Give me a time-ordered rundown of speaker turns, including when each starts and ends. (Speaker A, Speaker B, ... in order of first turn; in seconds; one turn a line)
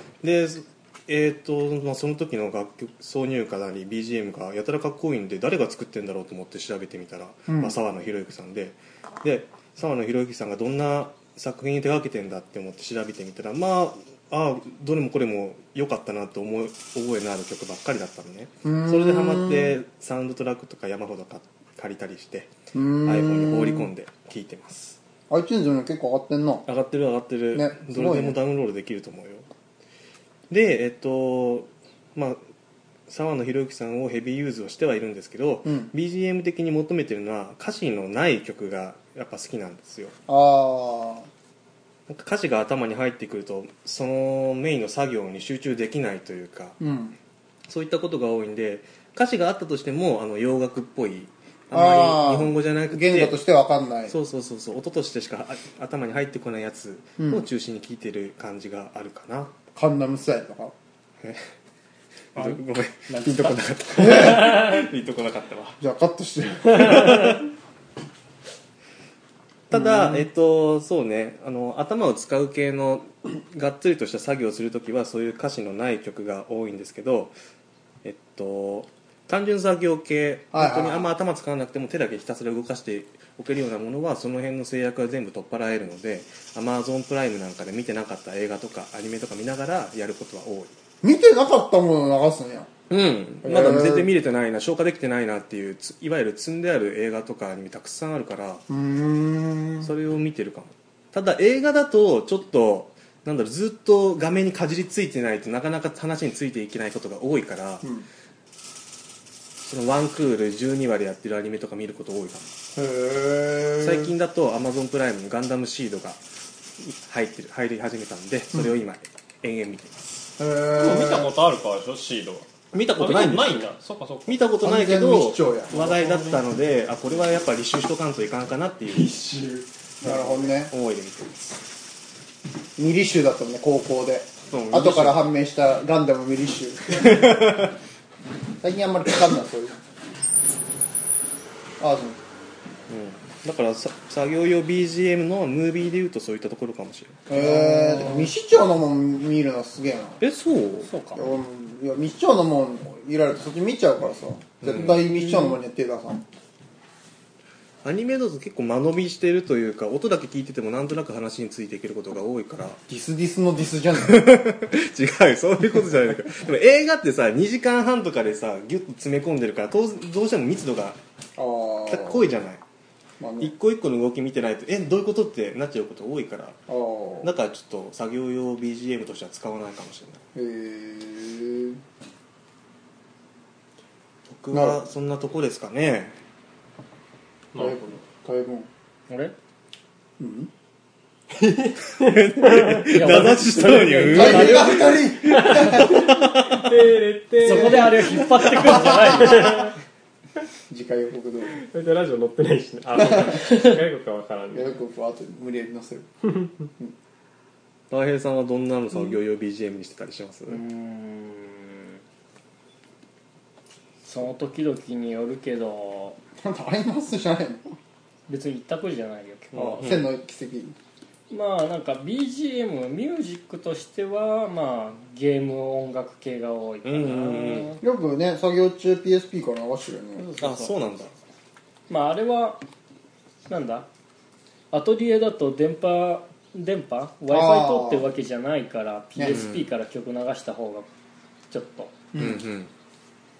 Speaker A: 0.2-25.0
Speaker B: 7.5-7.8
Speaker B: 18.6-19.8
Speaker B: 22.7-23.9
Speaker B: 25.3-26.7
Speaker A: 26.7-29.5
Speaker B: 27.5-28.4
Speaker A: 30.5-32.4
Speaker A: 33.1-40.1
Speaker B: 35.6-35.9
Speaker B: 40.3-41.3
Speaker A: 42.1-46.8
Speaker B: 46.8-47.2
Speaker A: 47.7-53.4
Speaker B: 51.7-54.1
Speaker A: 54.1-59.5
Speaker B: 57.2-57.4
Speaker B: 59.7-60.7
Speaker C: 62.4-64.8
Speaker A: 62.4-65.8
Speaker B: 64.0-64.4
Speaker B: 65.8-67.3
Speaker A: 66.7-67.4
Speaker A: 69.7-77.3
Speaker B: 69.7-70.3
Speaker A: 78.0-90.8
Speaker B: 80.5-81.1
Speaker B: 91.0-92.7
Speaker A: 92.9-98.6
Speaker B: 93.4-94.1
Speaker B: 98.7-99.9
Speaker A: 99.8-107.9
Speaker B: 107.8-108.1
Speaker A: 109.6-112.5
Speaker B: 112.8-114.1
Speaker A: 113.8-116.2
Speaker A: 117.0-120.0
Speaker B: 118.5-118.8
Speaker B: 120.4-121.3
Speaker D: 120.7-124.4
Speaker A: 122.7-123.7
Speaker A: 124.3-129.2
Speaker B: 124.6-125.8
Speaker D: 125.7-126.4
Speaker D: 128.9-130.4
Speaker B: 130.0-130.7
Speaker A: 130.7-131.5
Speaker B: 132.8-137.2
Speaker A: 134.5-135.2
Speaker A: 136.9-137.7
Speaker B: 138.6-139.8
Speaker B: 141.8-142.2
Speaker A: 142.9-147.2
Speaker B: 147.3-150.2
Speaker C: 147.3-148.3
Speaker A: 150.2-150.9
Speaker C: 150.8-151.3
Speaker B: 151.1-156.2
Speaker A: 154.6-154.9
Speaker C: 154.8-155.6
Speaker A: 157.8-162.8
Speaker B: 162.9-164.4
Speaker A: 164.0-171.0
Speaker B: 171.4-172.2
Speaker A: 171.9-172.6
Speaker B: 173.2-173.5
Speaker A: 173.4-176.6
Speaker B: 176.7-177.3
Speaker A: 177.2-180.2
Speaker B: 180.3-181.8
Speaker A: 184.3-186.2
Speaker B: 184.5-184.8
Speaker D: 187.5-187.9
Speaker B: 187.5-188.7
Speaker C: 189.1-189.3
Speaker B: 190.2-190.5
Speaker D: 191.3-193.9
Speaker A: 192.0-196.7
Speaker C: 192.9-195.0
Speaker B: 194.1-196.1
Speaker D: 195.3-199.7
Speaker C: 197.4-199.7
Speaker B: 197.4-198.1
Speaker B: 200.7-201.6
Speaker D: 201.6-204.8
Speaker B: 203.0-203.3
Speaker B: 204.5-206.1
Speaker D: 206.2-206.5
Speaker A: 207.9-210.6
Speaker C: 210.5-212.0
Speaker C: 214.0-216.2
Speaker B: 216.4-217.8
Speaker C: 218.3-219.9
Speaker A: 219.5-220.1
Speaker B: 219.5-220.8
Speaker C: 221.3-227.8
Speaker A: 226.8-227.7
Speaker B: 227.8-230.3
Speaker C: 230.2-230.8
Speaker A: 230.4-231.1
Speaker C: 231.9-232.6
Speaker C: 233.5-233.9
Speaker C: 234.7-240.9
Speaker B: 237.3-238.1
Speaker B: 239.2-239.4
Speaker A: 239.3-239.6
Speaker C: 241.5-241.9
Speaker B: 242.1-242.4
Speaker A: 242.2-242.7